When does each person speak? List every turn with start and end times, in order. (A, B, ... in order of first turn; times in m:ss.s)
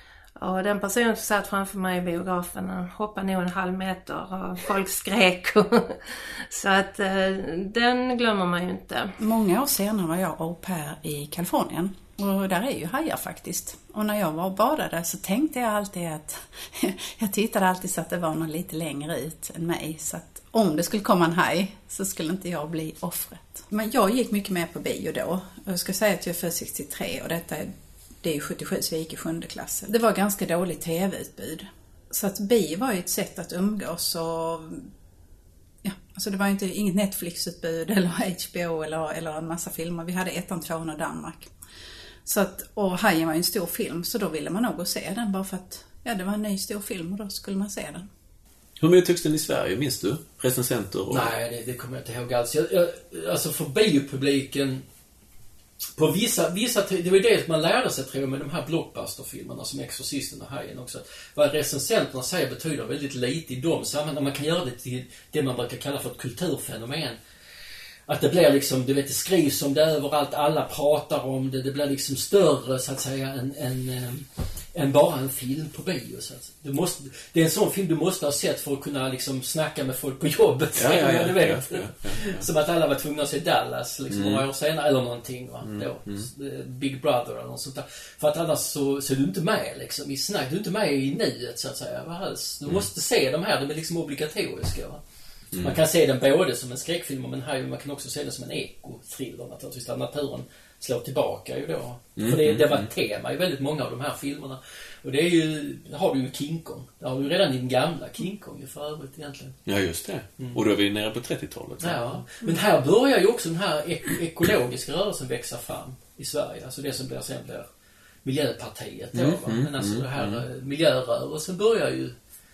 0:00.4-0:09.2 A
0:09.2-0:34.9 B
0:35.8-0:41.5 B
0:42.2-0:48.1 B
0:48.8-0:51.3 C
0:51.1-0:54.8 D
0:56.0-1:07.2 D
1:08.1-1:35.0 D
1:20.8-1:22.4 C
1:24.1-1:24.4 C
1:25.6-1:26.3 C
1:35.5-1:35.8 C
1:35.6-1:49.6 D
1:42.2-1:42.9 C
1:49.6-1:52.2 C
1:51.8-1:57.7 D
1:58.2-2:02.1 D
1:59.1-2:00.4 C